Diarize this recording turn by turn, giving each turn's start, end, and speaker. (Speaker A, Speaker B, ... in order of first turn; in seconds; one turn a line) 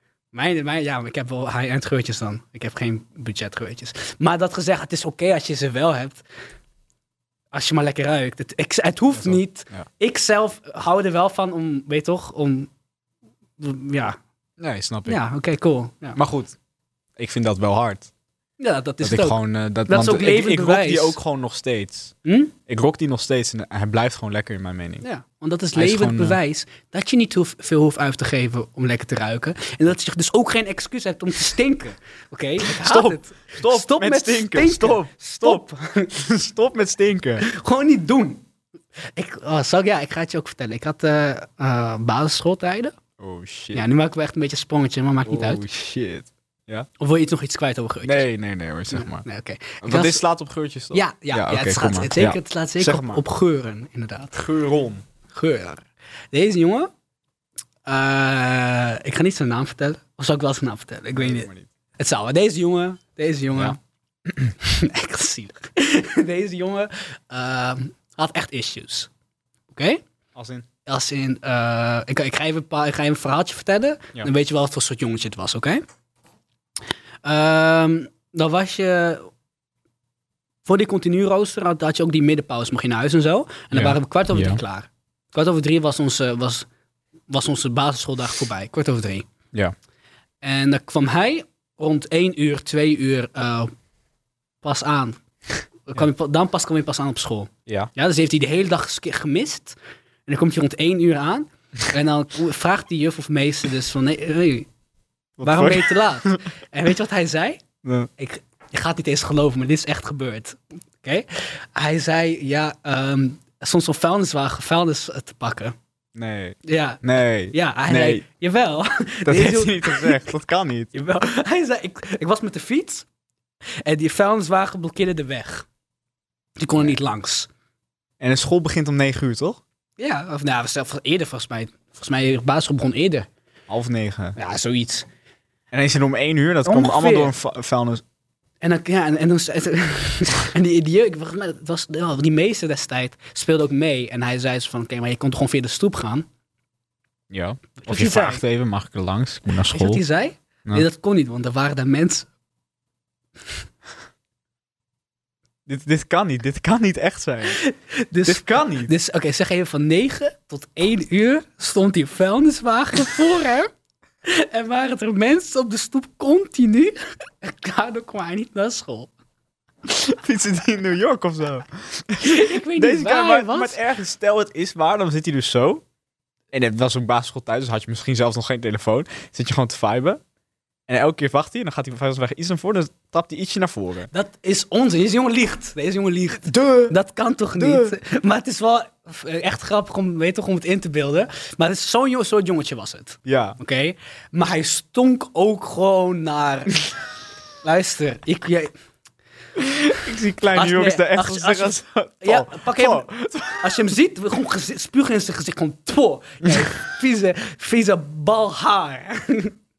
Speaker A: 0.3-6.2
Speaker A: 7.5-12.7
Speaker B: 9.1-9.9
Speaker A: 13.6-14.2
Speaker B: 14.6-15.2
Speaker A: 15.1-16.2
Speaker B: 16.1-16.6
Speaker B: 17.2-18.1
Speaker A: 18.6-21.2
Speaker B: 19.0-22.1
Speaker A: 22.2-22.5
Speaker B: 22.7-25.1
Speaker A: 25.0-36.1
Speaker B: 25.7-26.4
Speaker B: 32.6-37.5
Speaker A: 37.4-38.5
Speaker A: 39.1-43.0
Speaker B: 43.2-43.8
Speaker A: 43.7-45.6
Speaker B: 45.2-46.9
Speaker A: 47.0-48.3
Speaker B: 48.0-49.2
Speaker A: 48.9-50.2
Speaker B: 49.8-53.2
Speaker A: 50.9-54.5
Speaker B: 54.3-55.0
Speaker A: 55.3-56.9
Speaker A: 57.9-63.8
Speaker B: 61.1-61.7
Speaker A: 64.6-69.1
Speaker A: 69.7-70.0
Speaker B: 70.3-70.7
Speaker A: 70.8-75.8
Speaker A: 77.2-79.3
Speaker A: 80.6-86.7
Speaker B: 83.7-84.6
Speaker A: 87.3-89.3
Speaker A: 90.4-93.7
Speaker A: 94.6-95.2
Speaker A: 95.8-104.7
Speaker B: 97.7-97.9
Speaker B: 105.4-106.5
Speaker A: 105.4-107.6
Speaker B: 107.8-108.1
Speaker A: 108.2-115.8
Speaker B: 116.1-118.2
Speaker A: 116.6-120.2
Speaker B: 119.2-120.9
Speaker A: 120.9-123.0
Speaker A: 123.8-125.7
Speaker A: 126.6-127.5
Speaker B: 128.2-129.6
Speaker A: 130.0-133.3
Speaker B: 133.7-134.3
Speaker A: 134.3-135.1
Speaker B: 135.7-138.0
Speaker A: 136.6-137.3
Speaker A: 138.6-146.3
Speaker B: 147.3-150.0
Speaker A: 147.8-148.4
Speaker A: 149.6-152.3
Speaker B: 155.7-157.6
Speaker A: 157.5-163.7
Speaker B: 158.2-158.9
Speaker A: 164.2-169.1
Speaker B: 169.8-175.8
Speaker A: 172.2-173.8
Speaker B: 176.5-180.2
Speaker B: 180.9-184.1
Speaker A: 184.1-196.8
Speaker B: 186.4-186.9
Speaker B: 187.6-187.9
Speaker B: 193.2-193.6
Speaker A: 197.6-198.7
Speaker B: 199.6-203.8
Speaker A: 200.5-209.6